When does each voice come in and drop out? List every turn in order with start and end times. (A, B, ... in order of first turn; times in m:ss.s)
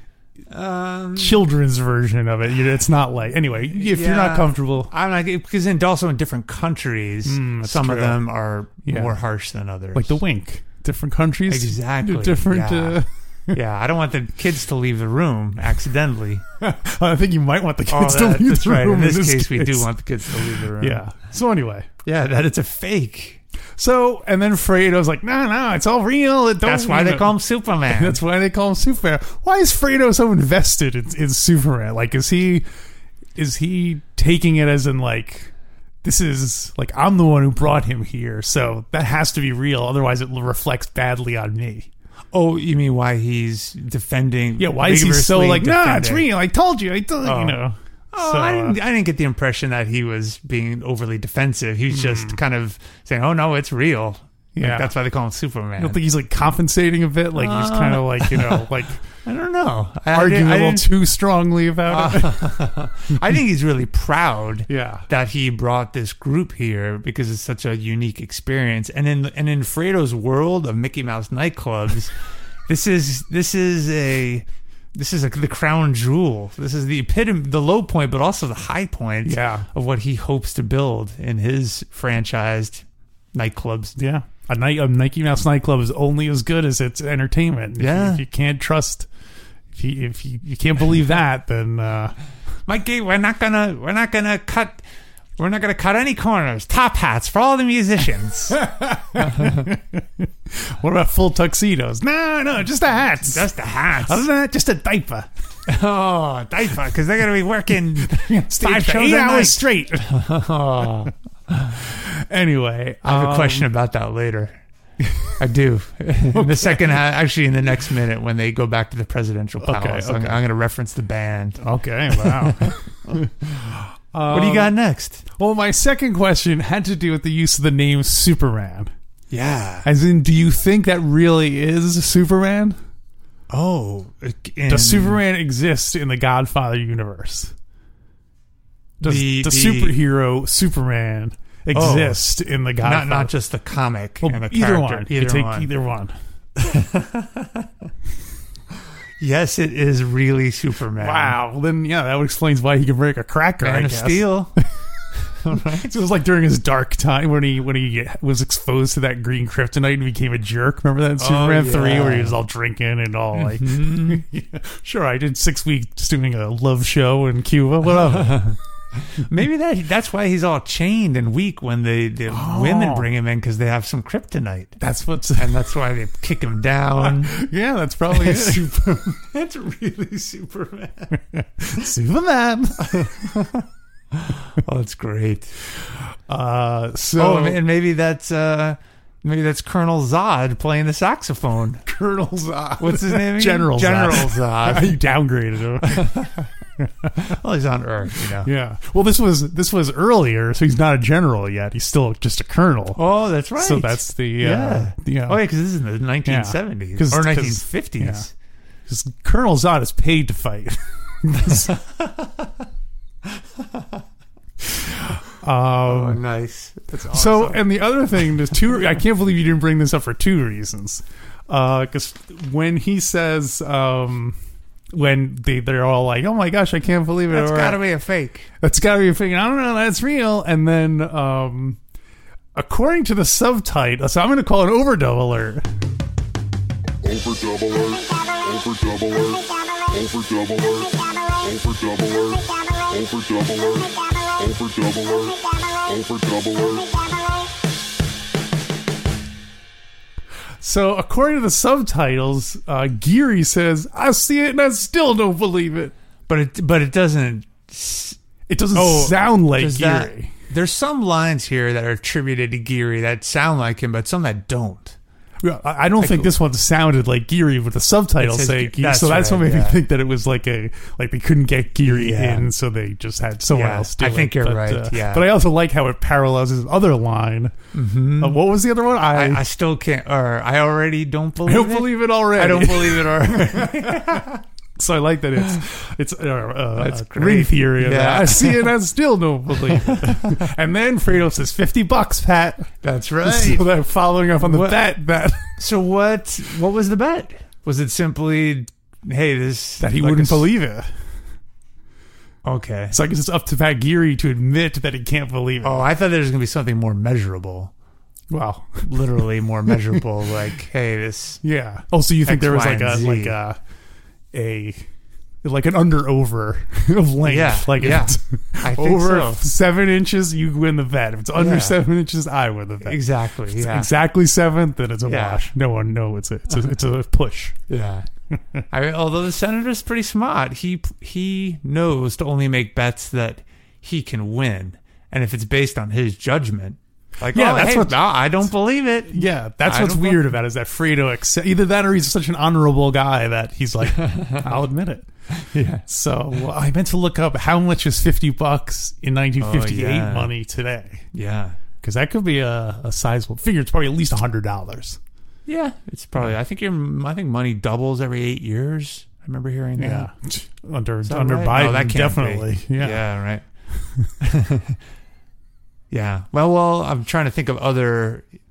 0:00.5-0:01.4 A
0:01.2-0:04.9 B
0:03.7-0:10.2 A
0:07.3-0:08.3 B
0:08.8-0:09.2 B
0:09.9-0:13.6 B
0:11.5-0:16.4 A
0:16.6-0:21.9 B
0:17.9-0:21.0 A
0:22.0-0:23.4 A
0:23.8-0:32.6 B
0:26.6-0:28.2 A
0:33.4-0:41.9 B
0:42.3-0:46.3 A
0:44.6-0:48.8 B
0:47.2-0:47.6 A
0:48.1-0:56.0 A
0:51.9-0:52.4 B
0:54.6-0:54.9 B
0:55.8-0:59.0 B
0:57.3-1:00.9 A
1:00.1-1:02.5 B
1:01.9-1:12.1 A
1:04.7-1:05.1 B
1:12.7-1:23.9 A
1:19.2-1:19.7 B
1:24.0-1:29.1 B
1:27.8-1:28.2 A
1:29.7-1:32.2 B
1:32.7-1:34.8 A
1:35.4-1:38.6 A
1:38.5-1:45.3 B
1:39.2-1:39.7 A
1:43.3-1:44.3 A
1:45.7-1:51.8 A
1:48.0-1:50.2 B
1:51.8-1:53.7 B
1:53.0-1:54.6 A
1:55.4-2:03.1 A
1:56.3-1:56.9 B
1:59.6-2:00.4 B
2:01.6-2:04.7 B
2:04.3-2:05.2 A
2:05.3-2:08.9 B
2:09.3-2:09.9 A
2:09.8-2:12.8 B
2:13.5-2:15.2 A
2:14.7-2:17.5 B
2:19.0-2:23.3 B
2:19.0-2:20.0 A
2:21.7-2:22.2 A
2:22.8-2:25.7 A
2:24.2-2:26.1 B
2:26.6-2:27.7 A
2:29.2-2:31.4 A
2:31.0-2:34.3 B
2:33.6-2:34.6 A
2:35.4-2:36.0 A
2:35.6-2:48.5 B
2:41.2-2:42.4 A
2:43.3-2:44.2 A
2:47.9-2:54.8 A
2:52.3-2:53.1 B
2:54.8-2:55.6 B
2:55.4-2:57.3 A
2:57.0-2:58.6 B
2:58.1-3:01.1 A
3:01.2-3:03.1 B
3:02.8-3:05.5 A
3:06.3-3:07.6 B
3:07.2-3:11.8 A
3:11.9-3:16.2 B
3:12.8-3:15.0 A
3:15.8-3:16.5 A
3:16.8-3:17.1 B
3:17.2-3:18.5 A
3:18.4-3:23.0 B
3:23.0-3:28.3 A
3:23.6-3:25.4 B
3:26.2-3:28.3 B
3:28.9-3:31.8 B
3:31.5-3:32.7 A
3:33.2-3:34.0 A
3:34.7-3:36.2 B
3:35.9-3:37.6 A
3:37.1-3:44.4 B
3:44.9-3:47.8 B
3:47.3-3:48.5 A
3:48.6-3:51.8 B
3:52.6-3:55.6 B
3:57.0-4:07.2 C
4:10.6-4:15.9 B
4:16.3-4:18.2 A
4:18.5-4:20.3 B
4:18.8-4:25.0 A
4:25.4-4:37.6 B
4:26.0-4:26.3 A
4:28.2-4:29.8 A
4:31.9-4:32.5 A
4:33.5-4:35.3 A
4:37.7-4:38.4 A
4:38.2-4:39.4 B
4:39.1-4:44.4 A
4:41.4-4:44.2 B
4:44.8-4:52.7 B
4:46.8-4:48.7 A
4:49.5-4:50.4 A
4:52.8-4:53.7 A
4:53.2-4:55.6 B
4:54.4-4:54.8 A
4:55.6-5:00.5 A
4:59.8-5:00.9 B
5:02.4-5:03.0 A
5:02.9-5:05.9 B
5:05.6-5:07.7 A
5:08.3-5:09.7 B
5:08.8-5:11.4 A
5:11.4-5:13.6 B
5:12.2-5:13.4 A
5:14.3-5:14.9 B
5:15.4-5:27.6 B
5:17.3-5:19.4 A
5:21.4-5:21.8 A
5:22.8-5:23.9 A
5:25.1-5:25.4 A
5:27.7-5:28.1 A
5:28.7-5:40.3 A
5:37.3-5:38.1 B
5:39.1-5:45.1 B
5:44.0-5:44.6 A
5:45.3-5:45.8 A
5:45.9-5:51.1 B
5:49.4-5:50.3 A
5:51.1-5:51.6 A
5:51.8-5:55.0 B
5:55.5-6:00.1 A
5:59.8-6:03.0 B
6:01.0-6:03.4 A
6:04.2-6:04.8 A
6:05.9-6:08.3 A